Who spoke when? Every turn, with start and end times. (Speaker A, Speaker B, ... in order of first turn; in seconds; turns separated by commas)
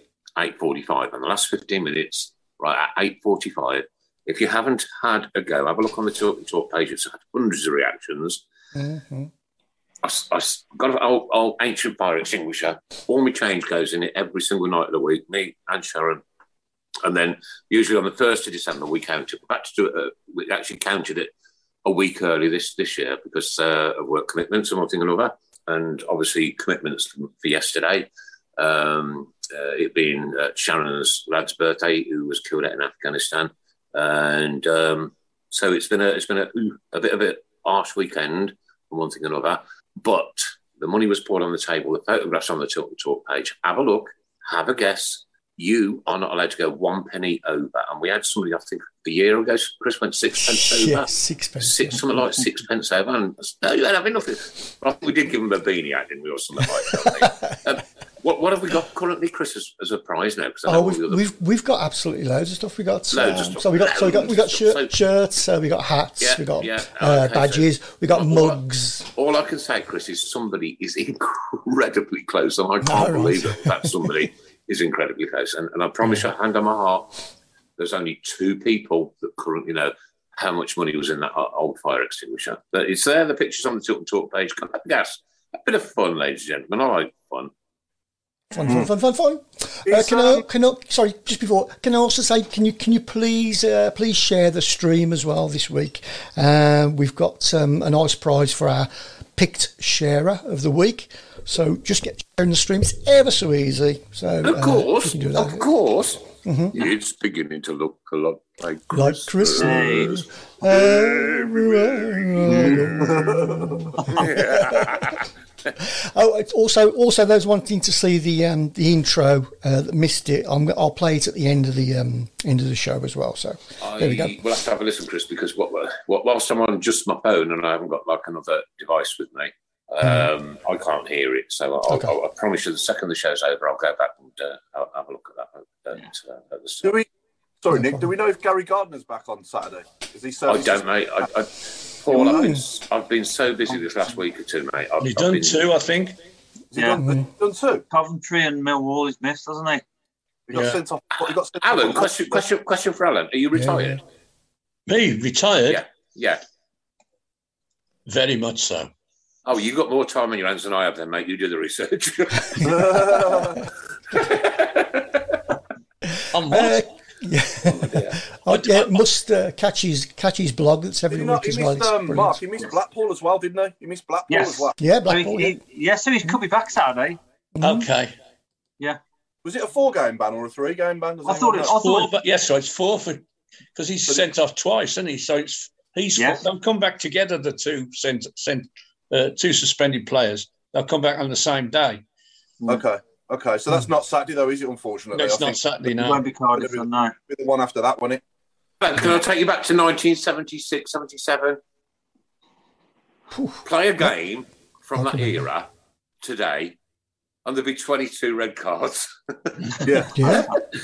Speaker A: 0.3-8.4, Speaker B: 8.7-9.3, Speaker A: 10.0-16.2, Speaker A: 17.0-21.3, Speaker A: 21.8-61.3, Speaker B: 50.4-52.0, Speaker B: 56.9-57.5, Speaker B: 60.6-69.1, Speaker A: 63.1-64.9, Speaker A: 66.2-68.6, Speaker A: 69.1-77.1, Speaker B: 72.8-74.1, Speaker A: 77.8-87.5, Speaker B: 88.5-105.7, Speaker C: 88.6-88.9, Speaker C: 89.8-90.4, Speaker A: 104.4-110.1, Speaker B: 106.4-106.7, Speaker B: 108.9-115.1, Speaker D: 109.5-110.2, Speaker A: 110.7-113.2, Speaker C: 112.5-114.1, Speaker A: 114.1-115.2, Speaker B: 115.8-124.3, Speaker A: 123.8-137.0, Speaker B: 130.0-130.3, Speaker B: 131.9-132.1, Speaker C: 137.6-140.9, Speaker B: 137.7-138.1, Speaker A: 140.5-145.7, Speaker B: 142.2-142.6, Speaker E: 145.0-146.2, Speaker C: 146.7-147.8, Speaker D: 146.8-147.0, Speaker D: 147.9-149.8, Speaker C: 150.5-152.4, Speaker E: 150.5-150.8, Speaker A: 151.2-154.0, Speaker B: 153.5-154.0, Speaker E: 154.9-155.8, Speaker A: 155.7-156.4, Speaker E: 158.1-158.9, Speaker A: 159.4-163.2, Speaker C: 162.6-163.6, Speaker A: 164.1-165.4, Speaker B: 166.2-172.4, Speaker E: 166.3-166.8, Speaker A: 167.6-168.2, Speaker C: 171.1-174.8, Speaker D: 174.3-177.2, Speaker B: 174.8-175.6, Speaker B: 177.6-177.9, Speaker E: 177.6-178.1, Speaker C: 179.4-181.7, Speaker D: 181.2-182.1, Speaker E: 181.6-192.0, Speaker D: 186.1-186.4, Speaker C: 192.7-195.6, Speaker E: 195.1-196.2, Speaker D: 195.9-197.1, Speaker C: 196.5-198.2, Speaker A: 198.8-201.6, Speaker B: 203.3-203.6, Speaker A: 203.6-205.7, Speaker B: 204.9-205.4, Speaker A: 206.2-206.8, Speaker A: 207.4-209.7, Speaker C: 209.8-210.4, Speaker B: 210.1-210.5